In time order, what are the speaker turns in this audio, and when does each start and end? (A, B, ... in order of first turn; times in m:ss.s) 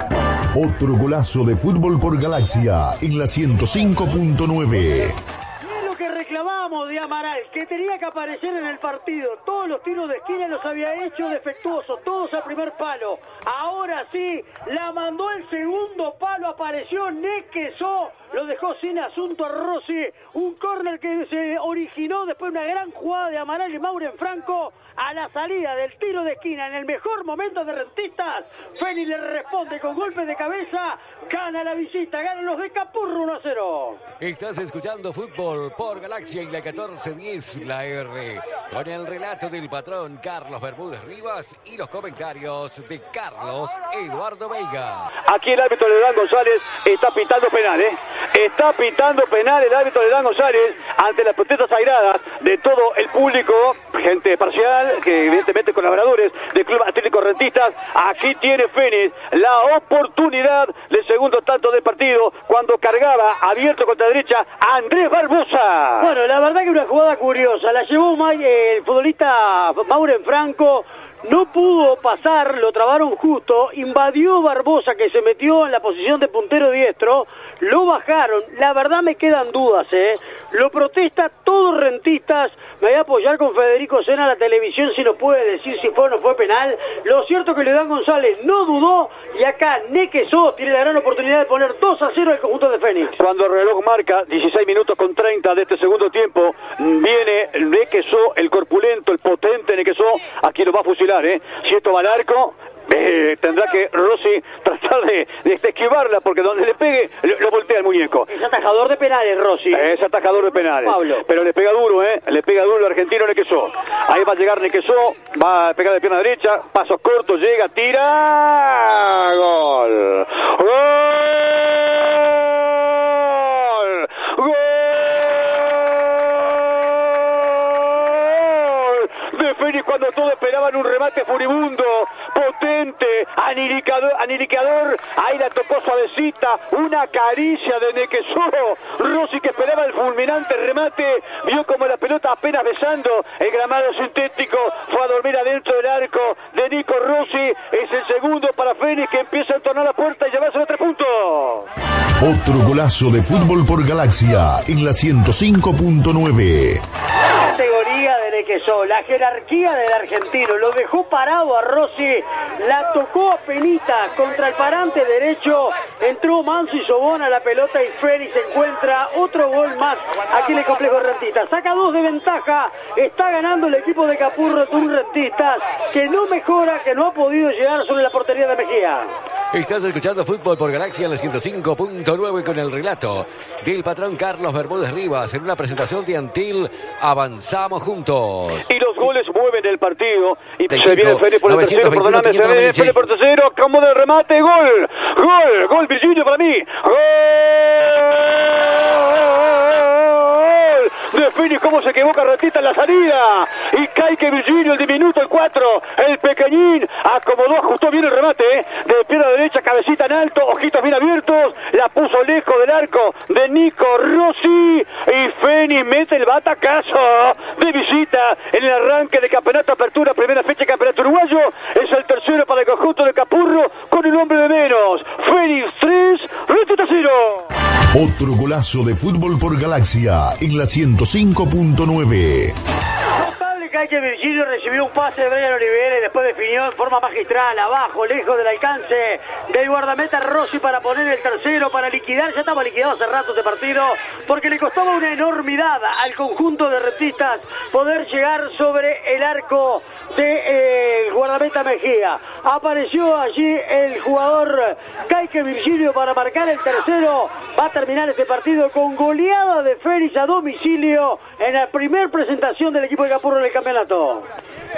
0:00.5-0:05.2 A
0:05.6-0:34.0 B
0:34.2-0:45.1 C
0:45.3-1:06.1 D
1:06.0-1:33.2 B
1:33.2-1:48.3 D
1:48.3-1:51.3 B
1:49.7-2:31.7 D
2:32.2-2:36.8 A
2:37.3-2:59.1 B
2:59.5-3:08.7 C
3:08.7-3:47.5 D
3:10.7-3:13.0 C
3:47.9-3:52.6 A
3:53.2-4:24.3 B